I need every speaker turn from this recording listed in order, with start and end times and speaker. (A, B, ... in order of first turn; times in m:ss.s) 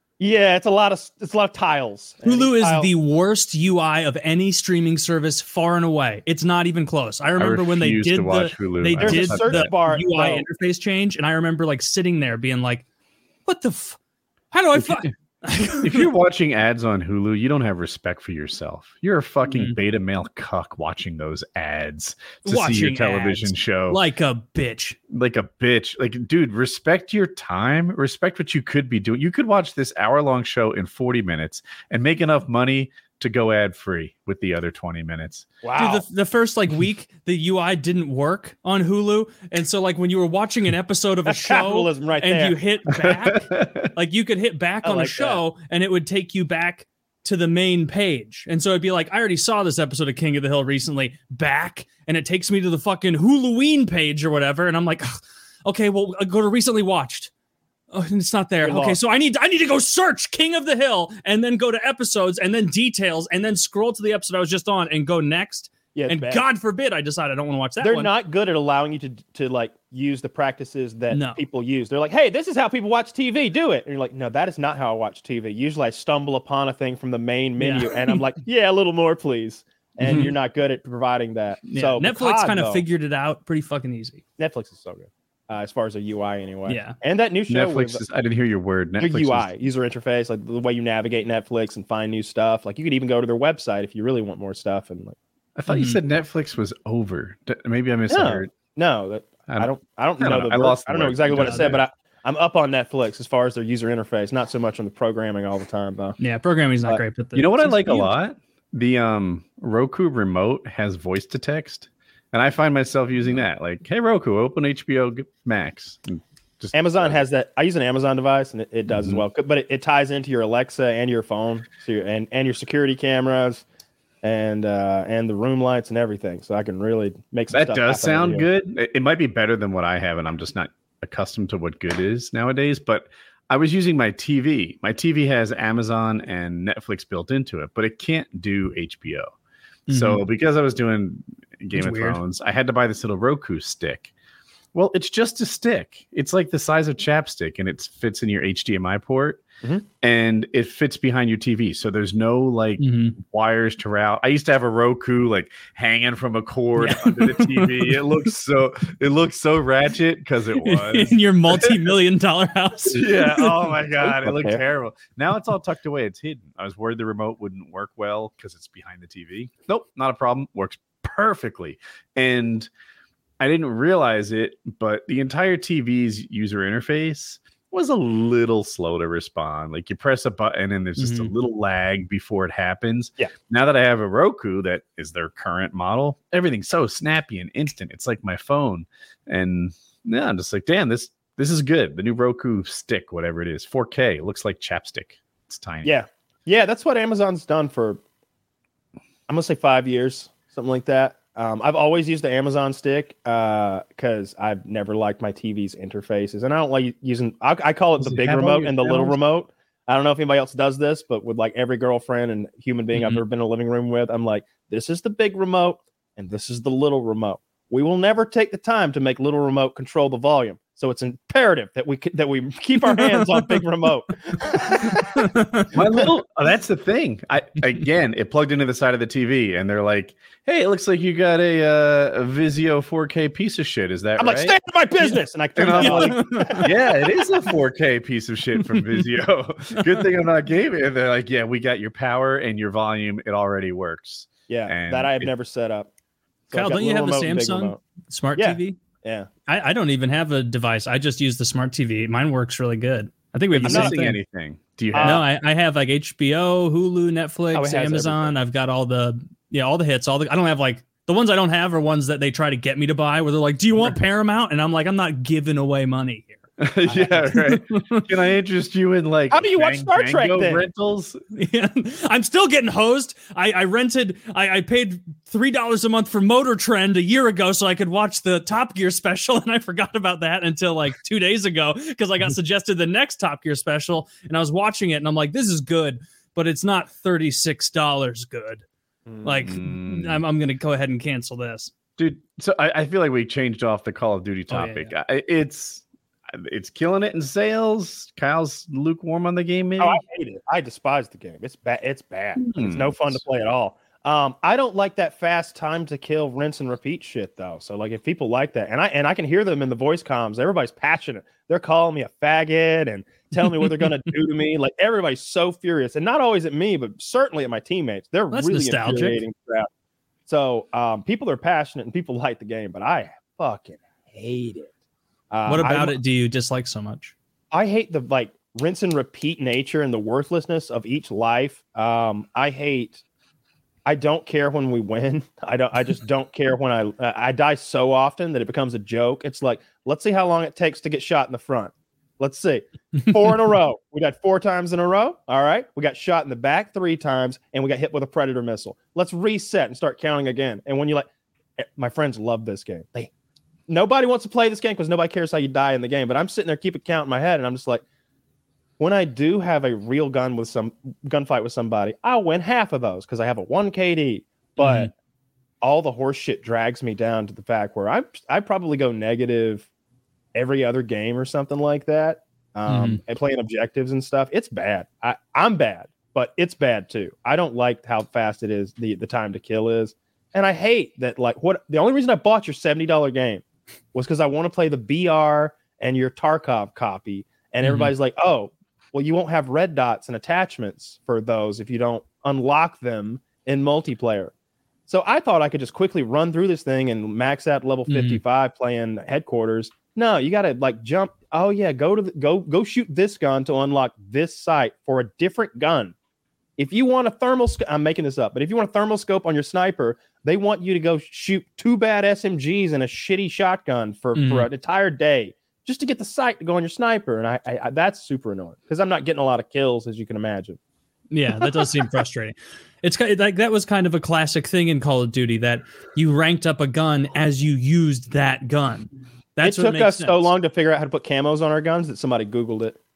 0:00.2-0:02.9 A
0:02.2-0:12.8 B
0:07.4-0:09.7 C
0:09.0-0:10.4 A
0:13.4-0:14.0 B
0:14.5-0:16.1 B
0:14.8-0:15.1 C
0:15.8-0:24.0 C
0:19.5-0:19.8 B
0:22.4-0:25.0 B
0:25.1-0:35.5 C
0:35.6-0:36.0 A
0:35.8-0:57.3 B
0:41.3-0:42.6 A
0:42.9-0:43.9 C
0:44.8-0:45.4 A
0:57.9-1:08.1 B
0:58.6-0:59.0 A
1:05.9-1:06.4 A
1:07.8-1:22.8 A
1:11.1-1:11.4 B
1:17.6-1:18.2 B
1:20.0-1:20.3 C
1:21.7-1:24.2 B
1:24.4-1:28.0 A
1:26.7-1:27.0 B
1:27.5-1:29.5 C
1:29.0-1:35.2 A
1:35.6-1:38.5 C
1:35.7-1:36.0 B
1:38.1-1:46.2 A
1:39.5-1:41.8 C
1:41.3-1:41.7 B
1:46.2-1:48.1 B
1:47.3-1:57.2 C
1:56.7-2:03.6 A
1:58.9-1:59.2 C
2:04.2-2:08.4 A
2:07.5-2:19.3 C
2:19.9-2:20.2 B
2:19.9-2:24.1 C
2:21.7-2:22.2 B
2:24.7-2:29.4 C
2:30.0-2:41.7 C
2:32.8-2:33.2 B
2:36.8-2:38.0 B
2:40.6-2:43.7 B
2:42.9-2:52.7 C
2:44.0-2:44.6 A
2:53.4-3:16.0 C
3:01.0-3:01.3 B
3:15.8-3:18.0 A
3:19.3-3:45.3 A
3:28.0-3:29.2 C
3:32.9-3:33.2 B
3:42.9-3:43.6 B
3:45.1-3:45.7 B
3:45.7-3:54.6 C
3:54.2-3:56.7 A
3:55.6-4:05.3 C
3:55.7-3:56.7 B
3:58.8-3:59.0 B
3:59.8-4:00.0 B
4:04.5-4:05.9 A
4:06.5-4:08.8 B
4:06.5-4:07.8 A
4:08.3-4:09.3 A
4:09.5-4:14.2 B
4:13.5-4:15.2 C
4:13.6-4:14.0 A
4:14.9-4:15.2 A
4:15.0-4:26.5 B
4:17.5-4:18.3 A
4:26.6-4:31.2 C
4:26.9-4:27.2 A
4:27.2-4:28.0 B
4:29.3-4:30.7 A
4:31.3-4:48.6 B
4:49.1-4:49.3 A
4:49.2-4:51.7 B
4:49.4-4:50.2 C
4:52.0-5:00.0 C
4:54.5-4:54.9 B
4:59.8-5:19.7 A
5:02.4-5:03.2 C
5:18.3-5:19.2 B
5:20.3-5:24.7 A
5:25.3-5:26.0 A
5:25.4-5:27.1 B
5:27.5-5:33.0 A
5:33.8-5:51.1 A
5:51.6-5:53.1 A
5:53.7-5:57.8 A
5:58.8-6:04.9 A
6:04.6-6:04.9 B
6:05.6-6:09.7 A
6:10.3-6:34.3 A
6:12.7-6:13.0 B
6:27.6-6:27.9 B
6:34.9-6:45.9 A
6:37.9-6:38.2 B
6:46.6-7:00.6 A
6:54.2-6:54.5 B
7:01.1-7:10.3 B
7:09.4-7:12.8 A